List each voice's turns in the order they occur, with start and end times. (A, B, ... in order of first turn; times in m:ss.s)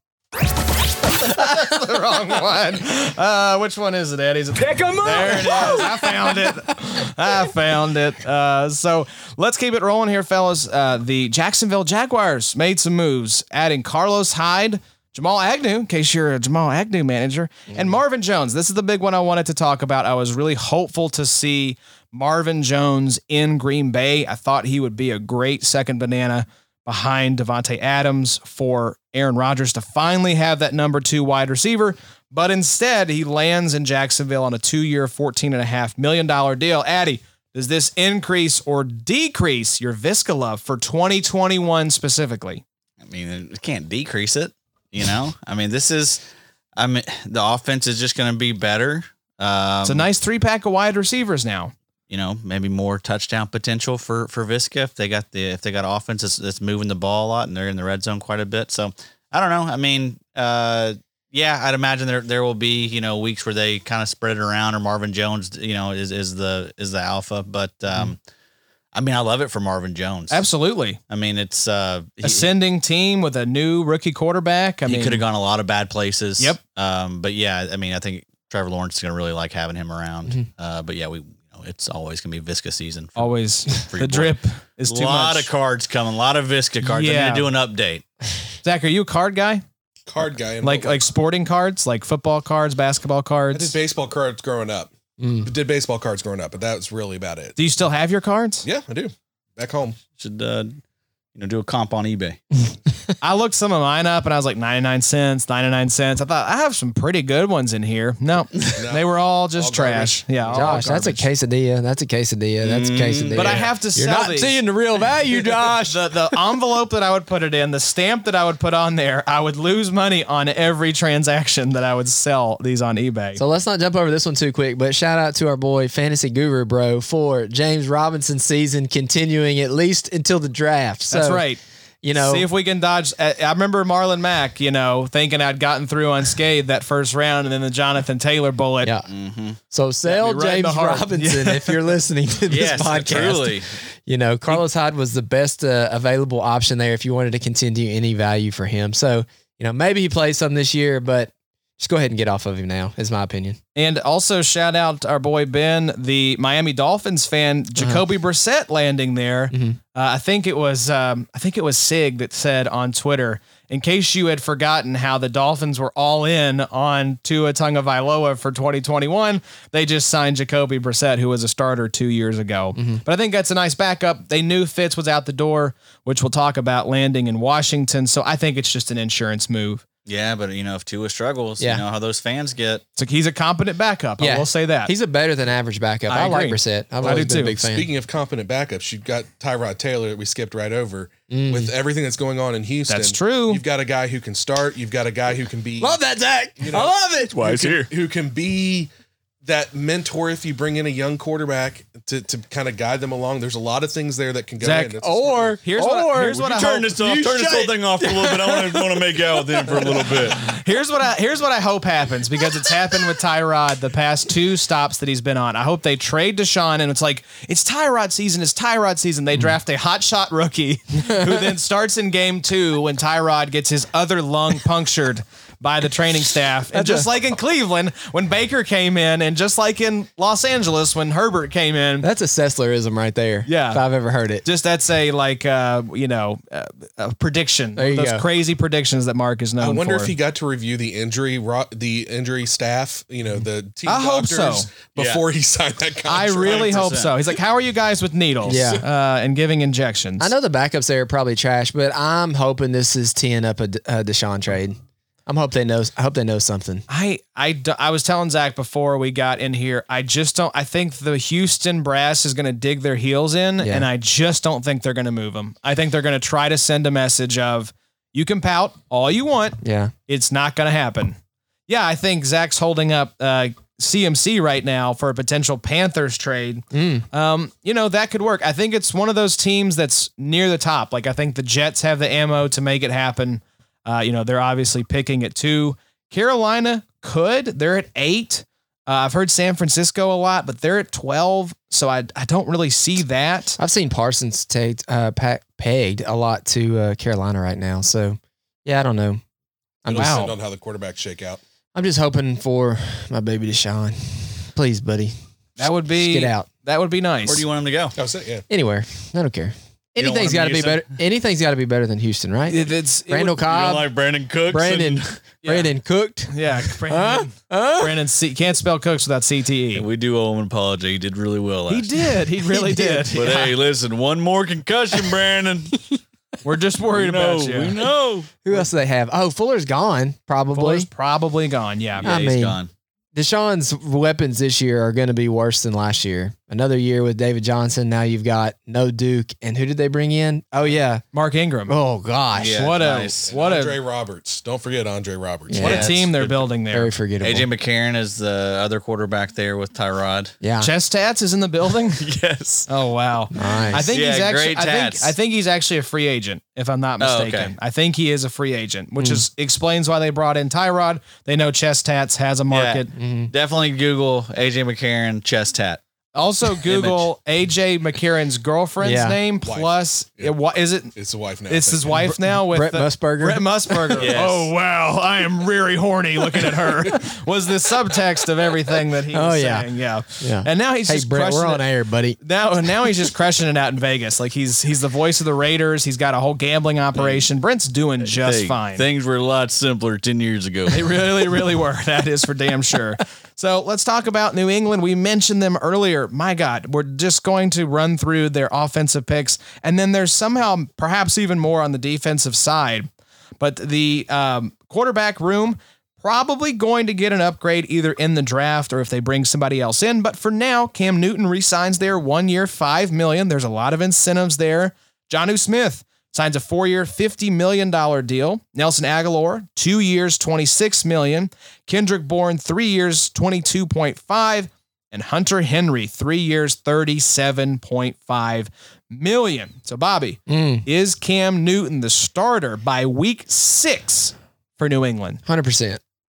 0:01.2-0:42.6 A
0:04.8-0:06.0 B
0:05.0-0:06.0 C
0:17.7-0:18.0 B
0:43.0-0:46.2 C
0:46.8-0:50.1 C
0:49.8-0:51.7 A
0:52.1-1:08.2 C
1:08.9-1:10.4 C
1:10.3-1:11.0 A
1:11.1-1:12.5 C
1:12.2-1:15.2 A
1:14.8-1:24.3 C
1:23.2-1:25.5 A
1:24.9-1:28.0 C
1:26.8-1:27.5 A
1:28.6-1:29.6 A
1:30.1-1:31.0 D
1:30.6-1:33.7 A
1:33.5-1:34.9 D
1:35.2-1:35.5 B
1:35.4-1:37.6 D
1:37.6-1:38.6 A
1:38.6-1:40.0 D
1:40.2-1:40.8 C
1:41.3-1:42.4 C
1:43.2-1:51.2 A
1:48.7-1:50.9 D
1:50.5-1:56.4 B
1:52.6-1:53.7 C
1:53.3-1:54.6 A
1:55.8-2:03.4 A
2:03.4-2:11.4 B
2:11.1-2:11.6 A
2:12.0-2:12.5 B
2:12.1-2:18.9 A
2:18.8-2:19.1 B
2:19.1-2:19.6 C
2:19.7-2:33.6 B
2:20.0-2:21.9 A
2:22.5-2:23.7 C
2:33.7-2:59.8 A
2:37.8-2:38.0 B
2:39.5-2:39.8 B
2:52.8-2:53.0 B
3:00.0-3:02.8 C
3:01.6-3:01.8 B
3:03.0-3:04.9 A
3:04.2-3:07.9 B
3:06.1-3:07.6 A
3:07.6-3:16.0 D
3:11.3-3:11.7 B
3:12.9-3:13.6 A
3:15.8-3:17.7 B
3:16.6-3:18.9 D
3:17.3-3:17.9 C
3:19.4-3:25.6 D
3:24.6-3:25.0 A
3:25.0-3:30.4 B
3:25.6-3:26.9 A
3:26.3-3:30.4 C
3:30.4-3:52.1 A
3:41.1-3:41.5 B
3:46.7-3:47.1 B
3:52.0-3:54.4 B
3:53.4-3:53.8 A
3:54.4-4:00.1 A
3:57.8-3:58.2 B
3:59.6-4:07.0 D
4:03.8-4:04.7 A
4:05.0-4:05.2 C
4:06.1-4:10.3 A
4:06.4-4:07.1 C
4:08.4-4:08.8 B
4:10.2-4:16.8 B
4:16.9-4:53.6 A
4:23.6-4:23.9 B
4:29.6-4:29.9 B
4:36.7-4:37.0 B
4:53.6-4:59.2 B
4:59.8-5:00.3 B
4:59.9-5:01.4 D
4:59.9-5:00.3 A
5:01.7-5:06.5 B
5:05.6-5:07.4 A
5:07.2-5:08.0 C
5:08.0-5:08.4 D
5:08.5-5:13.9 B
5:10.0-5:10.9 C
5:12.5-5:13.4 A
5:13.4-5:15.1 C
5:14.5-5:16.3 B
5:15.4-5:15.7 A
5:16.3-5:19.8 A
5:16.8-5:18.0 B
5:19.7-5:22.0 C
5:21.7-5:23.5 A
5:22.4-5:23.2 B
5:23.1-5:25.9 C
5:26.4-5:27.8 A
5:26.9-5:28.6 C
5:28.4-5:30.9 B
5:30.5-5:32.1 A
5:32.0-5:32.7 C
5:32.0-5:32.6 B
5:33.1-5:41.0 B
5:41.1-5:41.7 A
5:41.7-5:42.6 B
5:42.3-5:43.3 C
5:42.4-5:43.8 A
5:43.3-5:45.8 D
5:45.5-5:45.9 B
5:45.6-5:46.5 C
5:45.6-5:46.9 A
5:46.7-5:47.5 B
5:47.2-5:50.3 C
5:50.4-5:50.7 B
5:50.6-5:52.0 A
5:51.9-5:52.7 C
5:52.7-6:02.9 A
5:53.3-5:53.9 B
5:53.7-5:55.1 C
5:57.0-5:57.5 C
5:59.0-5:59.2 B
6:02.5-6:05.8 C
6:02.9-6:03.3 B
6:06.1-6:10.9 A
6:06.6-6:07.1 C
6:08.8-6:09.2 B
6:09.4-6:10.3 D
6:10.9-6:12.0 D
6:11.5-6:21.6 A
6:12.0-6:14.1 B
6:14.0-6:14.5 C
6:19.1-6:22.2 B
6:22.2-6:28.8 A
6:27.0-6:27.2 C
6:28.1-6:30.9 C
6:30.7-6:42.9 A
6:43.4-7:15.2 A
7:10.3-7:10.6 B
7:15.2-7:15.8 B